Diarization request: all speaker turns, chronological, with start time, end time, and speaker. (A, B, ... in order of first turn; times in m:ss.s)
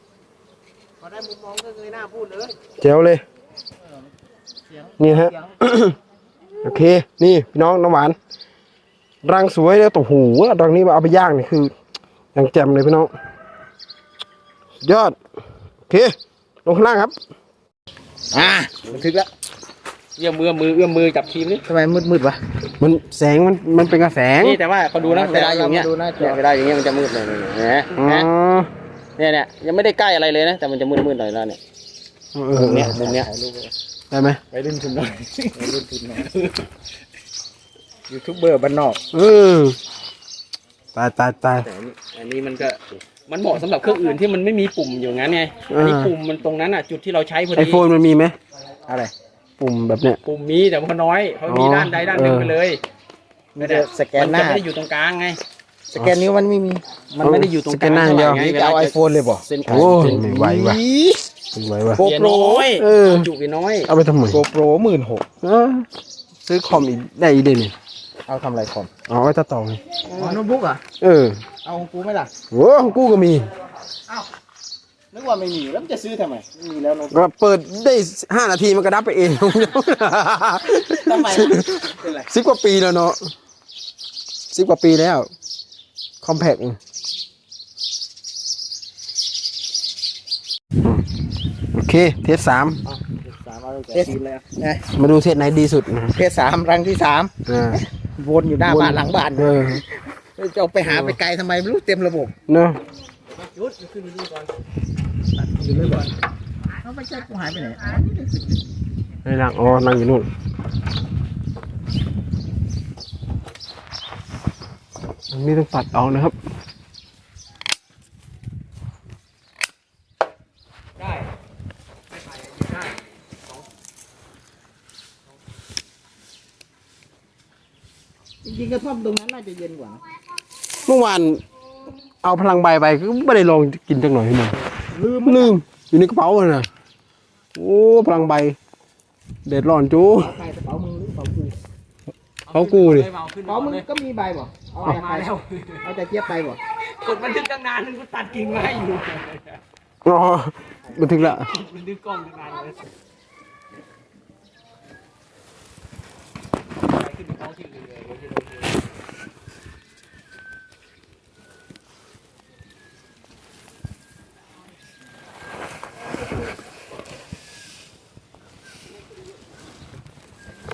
0:01.0-0:02.6 A
0:02.8-0:03.2 B
0:04.7-0:05.6 A
0:05.0-0:06.0 B
0:06.6-0:08.2 B
0:09.2-0:11.7 B
0:12.3-0:13.1 B
0:14.8-0:15.2 B
0:15.9-0:17.1 B
0:18.3-0:19.3 A
0:20.2-0:21.6 C
0:21.7-0:22.4 A
0:22.8-0:24.6 B
0:24.4-0:28.3 C
0:25.0-0:26.4 A
0:27.9-0:28.7 B
0:29.2-0:31.6 C
0:32.4-0:33.0 B
0:32.5-0:33.3 C
0:32.7-0:33.7 A
0:34.1-0:34.4 B
0:34.5-0:36.3 A
0:36.2-0:36.6 C
0:38.1-0:39.0 A
0:39.1-0:39.8 B
0:41.0-0:41.7 B
0:41.6-0:42.0 A
0:42.0-0:47.8 C
0:45.7-0:46.2 B
0:47.6-0:48.4 B
0:48.9-0:49.1 A
0:49.6-0:50.2 B
0:50.2-0:52.8 C
0:51.5-0:52.6 B
0:53.6-0:54.6 A
0:53.6-0:55.4 C
0:55.9-0:57.4 A
0:57.2-1:00.2 C
0:57.2-0:58.6 B
0:58.4-1:01.2 A
0:59.7-1:00.8 B
1:01.5-1:02.1 B
1:02.0-1:02.7 A
1:02.0-1:03.9 C
1:02.7-1:03.3 B
1:03.9-1:04.4 B
1:04.3-1:05.2 A
1:05.4-1:05.9 B
1:06.4-1:07.7 B
1:08.3-1:08.9 A
1:09.1-1:09.8 B
1:10.1-1:10.4 C
1:10.2-1:10.8 A
1:11.0-1:11.4 B
1:11.6-1:12.3 A
1:12.5-1:13.5 B
1:15.1-1:17.2 A
1:17.1-1:23.2 B
1:20.6-1:22.3 A
1:24.5-1:25.3 B
1:26.2-1:26.8 B
1:31.7-1:32.8 B
1:32.9-1:34.9 A
1:34.0-1:34.4 C
1:34.9-1:36.2 B
1:36.1-1:42.3 A
1:37.5-1:37.8 B
1:38.7-1:39.8 B
1:40.8-1:41.2 B
1:42.5-1:42.8 B
1:43.4-1:44.5 C
1:45.6-1:46.1 C
1:45.6-1:46.1 A
1:46.7-1:48.7 A
1:49.2-1:50.3 B
1:55.3-1:56.4 B
2:02.3-2:02.9 C
2:08.4-2:10.0 A
2:10.8-2:11.4 B
2:12.2-2:14.6 B
2:14.7-2:15.6 A
2:15.2-2:16.7 B
2:17.6-2:18.6 B
2:19.4-2:20.4 B
2:20.1-2:21.6 A
2:22.5-2:23.8 C
2:22.5-2:23.1 B
2:23.4-2:26.6 A
2:24.8-2:25.8 C
2:24.8-2:25.2 B
2:26.8-2:29.6 C
2:30.0-2:31.6 B
2:31.0-2:32.8 C
2:36.9-2:38.8 C